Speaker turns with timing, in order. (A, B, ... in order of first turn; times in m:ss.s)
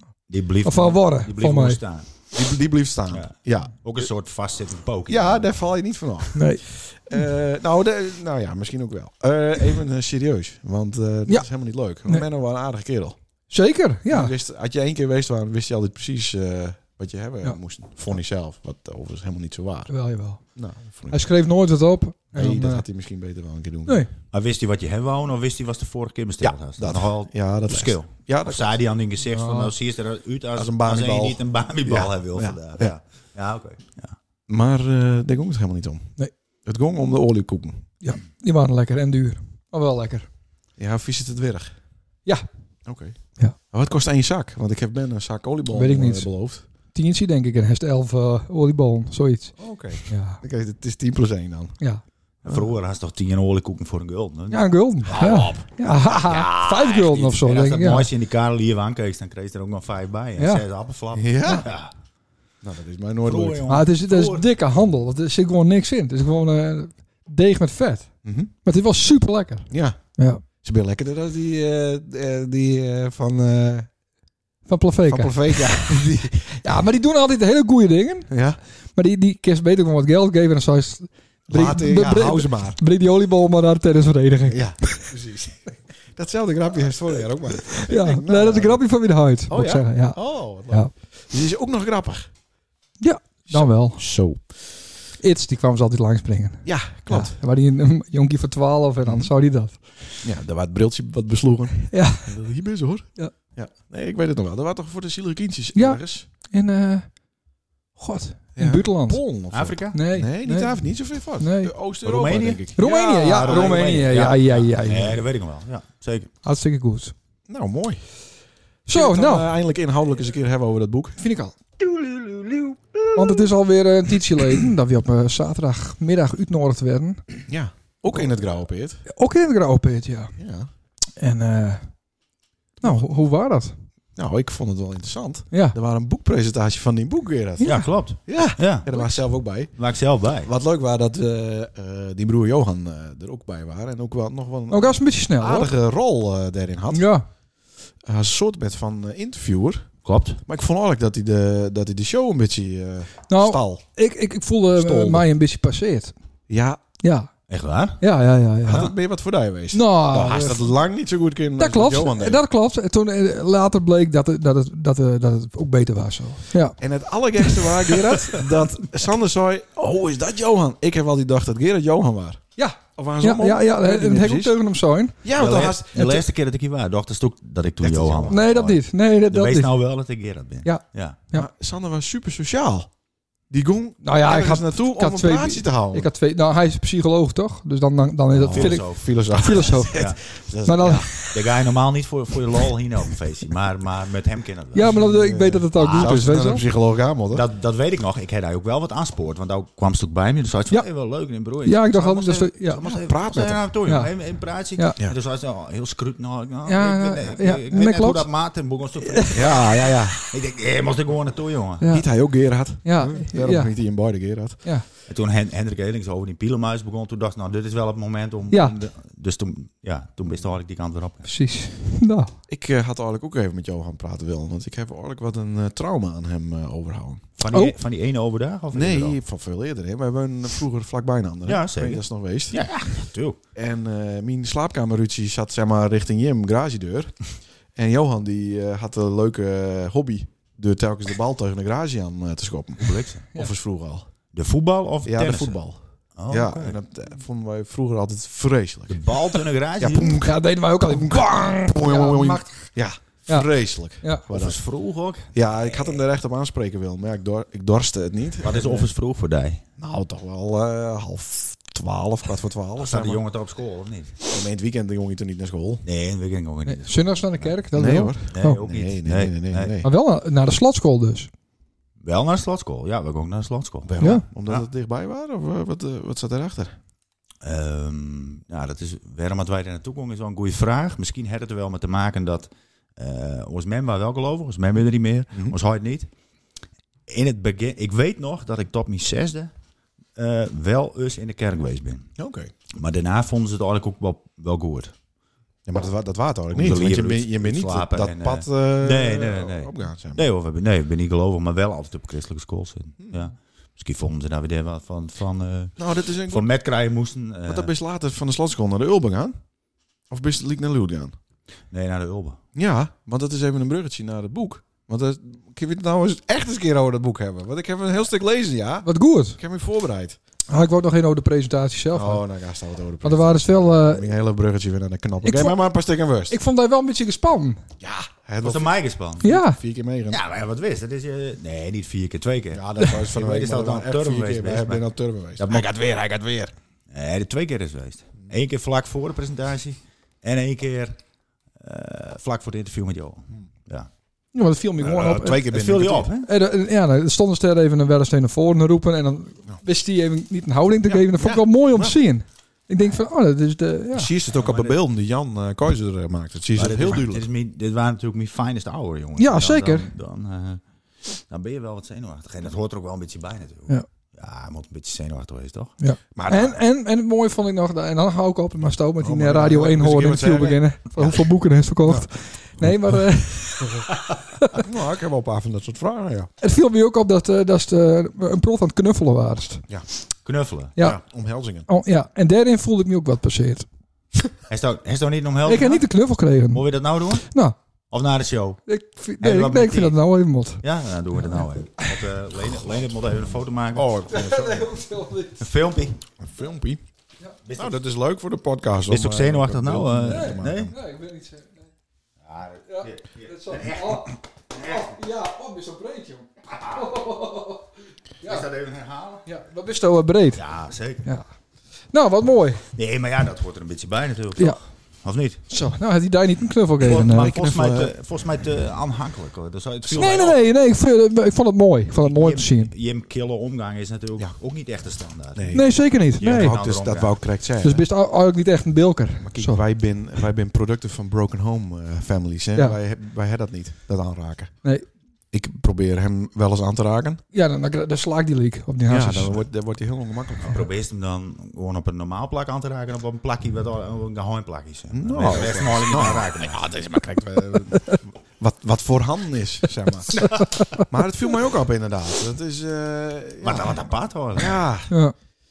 0:00.3-0:02.1 A
0:00.6-0:01.8 B
0:02.3-0:04.1 C
0:03.1-0:05.5 A
0:05.1-0:13.2 C
0:06.4-0:06.6 B
0:13.5-0:14.3 B
0:14.1-0:19.9 C
0:19.9-0:20.4 B
0:20.6-0:21.2 C
0:21.1-0:22.8 B
0:22.3-0:24.0 C
0:24.3-0:34.2 A
0:26.4-0:28.7 C
0:29.3-0:29.7 B
0:30.6-0:33.0 C
0:34.5-0:36.1 C
0:36.7-0:37.9 C
0:38.0-0:40.3 B
0:40.8-0:41.7 C
0:42.8-0:46.6 C
0:45.7-0:46.3 B
0:46.9-0:49.6 B
0:49.6-0:51.8 C
0:50.1-0:50.4 B
0:52.4-1:01.9 A
0:54.5-0:58.1 B
0:55.1-0:55.7 C
1:00.4-1:00.6 B
1:01.1-1:01.7 C
1:02.6-1:03.6 C
1:03.2-1:04.4 A
1:03.7-1:08.1 B
1:08.2-1:08.5 C
1:08.6-1:10.4 B
1:09.7-1:10.0 C
1:10.6-1:13.9 C
1:14.7-1:18.3 B
1:15.1-1:16.6 C
1:18.3-1:18.6 C
1:19.0-1:25.1 B
1:21.5-1:22.8 C
1:24.5-1:28.8 C
1:27.8-1:30.9 B
1:29.5-1:32.3 C
1:33.0-1:34.0 B
1:33.5-1:34.4 C
1:35.2-1:39.8 B
1:36.6-1:37.4 C
1:39.0-1:39.3 C
1:40.2-1:46.3 C
1:41.9-1:42.3 B
1:45.7-1:47.1 B
1:48.0-1:49.2 B
1:48.6-1:53.9 C
1:49.5-1:50.0 A
1:49.9-1:50.8 B
1:51.4-1:51.7 B
1:52.0-1:56.3 A
1:52.8-1:55.2 B
1:56.4-1:57.1 B
1:57.5-1:58.0 C
1:58.9-1:59.5 B
1:58.9-2:01.2 C
2:01.2-2:01.6 B
2:02.0-2:02.7 C
2:03.1-2:07.2 B
2:07.5-2:09.0 C
2:09.1-2:10.4 B
2:10.4-2:10.7 C
2:11.2-2:11.9 B
2:12.8-2:13.8 B
2:14.2-2:19.7 C
2:15.5-2:15.8 B
2:17.6-2:17.9 B
2:17.6-2:19.0 A
2:19.8-2:20.5 A
2:20.4-2:27.1 C
2:24.7-2:25.7 B
2:26.9-2:27.3 B
2:28.0-2:29.9 C
2:30.0-2:30.4 A
2:30.4-2:33.8 C
2:33.3-2:36.1 B
2:34.7-2:35.3 C
2:36.5-2:36.8 C
2:37.0-2:37.3 B
2:37.5-2:38.0 A
2:38.0-2:38.9 B
2:38.6-2:42.4 C
2:39.7-2:40.7 B
2:41.6-2:46.8 B
2:46.8-2:52.4 C
2:47.4-2:48.5 B
2:52.6-2:55.2 B
2:53.0-2:54.6 C
2:55.2-2:56.1 C
2:55.4-2:58.8 A
2:56.0-2:56.2 B
2:57.8-2:58.5 C
2:58.3-2:59.7 B
2:59.3-3:01.2 A
3:00.6-3:01.5 B
3:01.3-3:02.9 C
3:03.5-3:06.1 C
3:04.0-3:10.0 B
3:08.3-3:11.4 C
3:08.5-3:10.2 A
3:10.6-3:11.1 B
3:10.9-3:14.9 A
3:14.7-3:16.6 B
3:14.8-3:17.4 C
3:15.8-3:16.2 A
3:17.3-3:31.8 A
3:21.6-3:22.8 B
3:22.8-3:23.7 C
3:23.9-3:24.1 B
3:26.7-3:28.3 B
3:29.0-3:29.4 B
3:29.3-3:30.2 C
3:31.8-3:32.1 B
3:31.9-3:34.6 C
3:32.8-3:33.7 B
3:35.1-3:41.3 A
3:38.5-3:38.8 B
3:41.2-3:42.3 B
3:42.5-3:47.3 C
3:47.4-3:49.2 A
3:48.7-3:52.6 C
3:51.5-3:53.4 A
3:53.6-3:57.2 C
3:57.8-4:04.1 C
4:02.8-4:03.2 A
4:04.3-4:05.6 A
4:05.0-4:05.8 C
4:06.2-4:06.8 A
4:06.3-4:14.6 C
4:08.9-4:10.2 A
4:10.2-4:12.6 B
4:14.3-4:15.9 A
4:15.3-4:18.9 C
4:18.4-4:19.6 A
4:19.8-4:23.2 C
4:22.8-4:24.2 A
4:24.3-4:25.8 C
4:25.8-4:27.5 A
4:26.7-4:28.6 B
4:27.7-4:29.9 C
4:28.3-4:29.8 A
4:29.8-4:31.3 B
4:32.0-4:34.0 A
4:33.9-4:36.8 C
4:37.4-4:46.1 A
4:47.1-4:49.5 A
4:50.2-4:52.1 A
4:52.2-4:52.5 C
4:52.7-4:54.9 A
4:55.7-5:00.2 C
4:56.5-5:07.7 A
5:05.8-5:06.5 C
5:07.5-5:09.4 C
5:10.1-5:11.2 C
5:11.7-5:12.4 A
5:12.6-5:20.2 C
5:18.8-5:19.4 B
5:20.5-5:22.2 B
5:21.9-5:26.4 C
5:23.0-5:24.1 B
5:25.2-5:25.6 B
5:26.3-5:27.6 B
5:27.8-5:30.2 C
5:28.4-5:29.3 A
5:29.2-5:29.6 B
5:30.1-5:34.8 A
5:32.5-5:36.5 C
5:35.4-5:35.7 A
5:36.9-5:41.0 A
5:41.6-5:43.9 A
5:44.3-5:45.4 B
5:44.8-5:46.1 C
5:44.8-5:46.3 A
5:46.2-5:54.1 B
5:50.8-5:52.0 C
5:53.9-5:57.3 C
5:54.3-5:54.8 A
5:56.6-6:05.8 A
5:59.2-5:59.9 B
6:05.8-6:14.6 B
6:06.2-6:06.6 C
6:09.0-6:11.2 C
6:14.5-6:16.3 C
6:16.4-6:19.6 B
6:20.2-6:20.9 A
6:20.8-6:21.7 C
6:21.7-6:23.7 B
6:24.5-6:25.8 A
6:25.4-6:26.6 B
6:26.5-6:27.3 A
6:27.2-6:27.6 B
6:27.9-6:28.6 A
6:28.7-6:30.6 B
6:29.2-6:30.0 A
6:30.6-6:33.9 A
6:33.7-6:34.7 C
6:34.1-6:35.5 B
6:35.4-6:36.0 A
6:36.2-6:36.8 C
6:37.4-6:37.8 A
6:37.6-6:40.7 C
6:38.9-6:40.8 A
6:40.1-6:41.7 B
6:42.2-6:44.9 A
6:42.7-6:48.5 B
6:46.6-6:46.9 A
6:48.2-6:49.2 A
6:49.2-6:50.4 B
6:50.3-6:51.1 A
6:51.9-6:52.6 B
6:52.8-6:55.4 A
6:55.5-6:57.3 B
6:56.8-7:00.4 A
6:56.9-6:57.9 C
6:59.9-7:02.7 B
7:02.0-7:05.6 A
7:05.4-7:07.8 C
7:05.5-7:06.6 B
7:06.2-7:07.2 A
7:07.6-7:09.6 B
7:09.2-7:14.5 C
7:15.3-7:17.2 C
7:17.3-7:19.4 B
7:18.9-7:20.6 C
7:20.4-7:26.7 A
7:24.9-7:34.9 C
7:33.4-7:34.6 A